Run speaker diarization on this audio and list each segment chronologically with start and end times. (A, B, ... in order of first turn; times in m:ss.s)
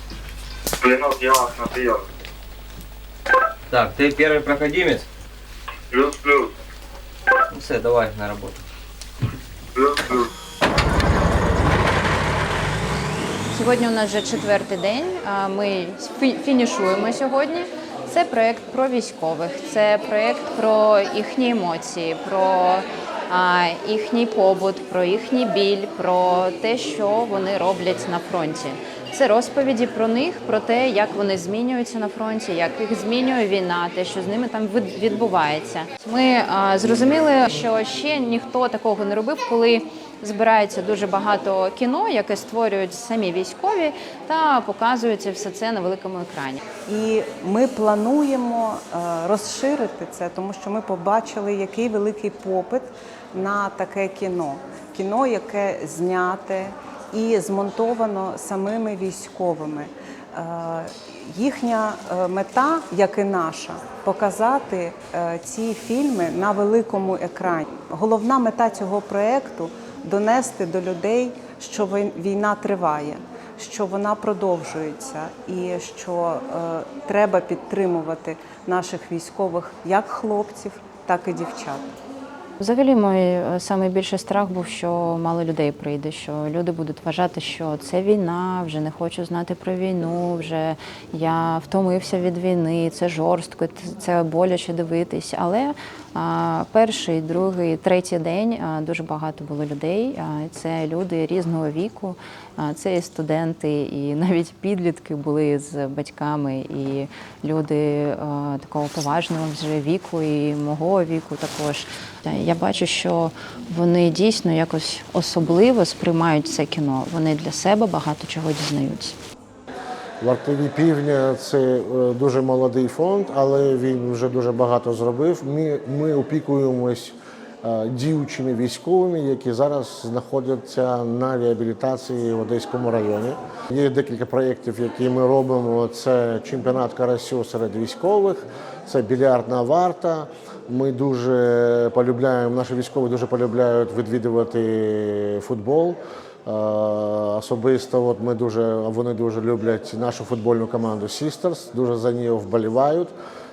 0:00.8-0:02.0 A
0:03.7-0:05.1 B
0:05.9-0:06.5 A
0:07.5-0:08.6 B
0:09.8-0:10.3 A
0:13.5-0:46.6 C
0:46.9-1:21.9 D
1:22.6-1:59.2 C
2:00.2-2:33.1 E